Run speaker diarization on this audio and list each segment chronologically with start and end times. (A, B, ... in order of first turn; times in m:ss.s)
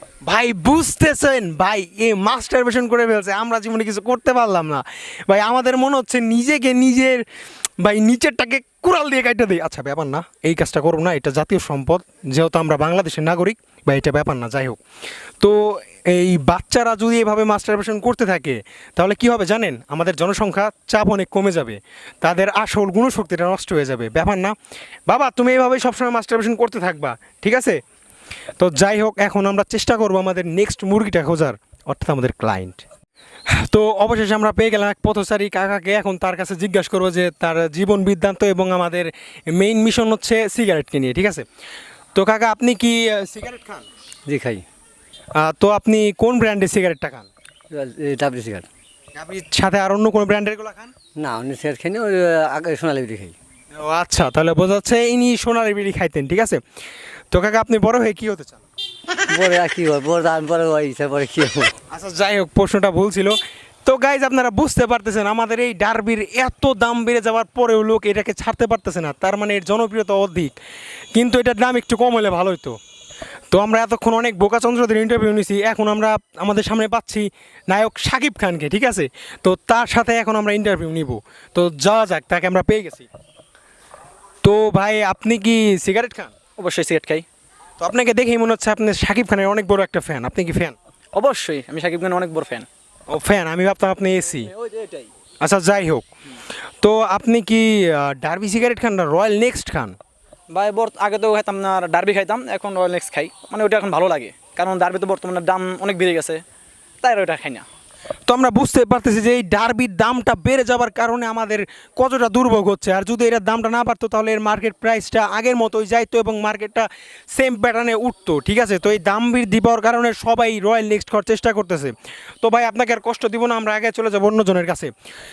0:00.2-0:07.2 A
0:07.8-0:14.8 A
0:15.4-0:24.6 A
0:25.1-0:27.8 A
0:28.6-0:32.8 A
0:33.6-0:41.4 A
0:42.2-0:43.9 A
0:44.3-0:44.6 B
0:45.4-0:47.3 A
0:47.7-0:48.7 B
0:49.2-0:50.9 A
0:51.2-0:53.3 B
0:53.8-0:56.6 A
0:57.3-0:58.6 A
0:59.3-1:01.7 B
1:01.9-1:10.6 A
1:11.1-1:12.8 A
1:13.5-1:23.1 A
1:24.4-1:26.3 A
1:26.6-1:27.3 C
1:27.8-1:30.8 A
1:31.1-1:32.7 C
1:33.1-1:34.5 A
1:34.5-1:35.1 C
1:35.4-1:36.1 A
1:36.8-1:40.0 A
1:40.5-1:46.4 C
1:47.0-1:47.7 C
1:48.3-2:04.9 A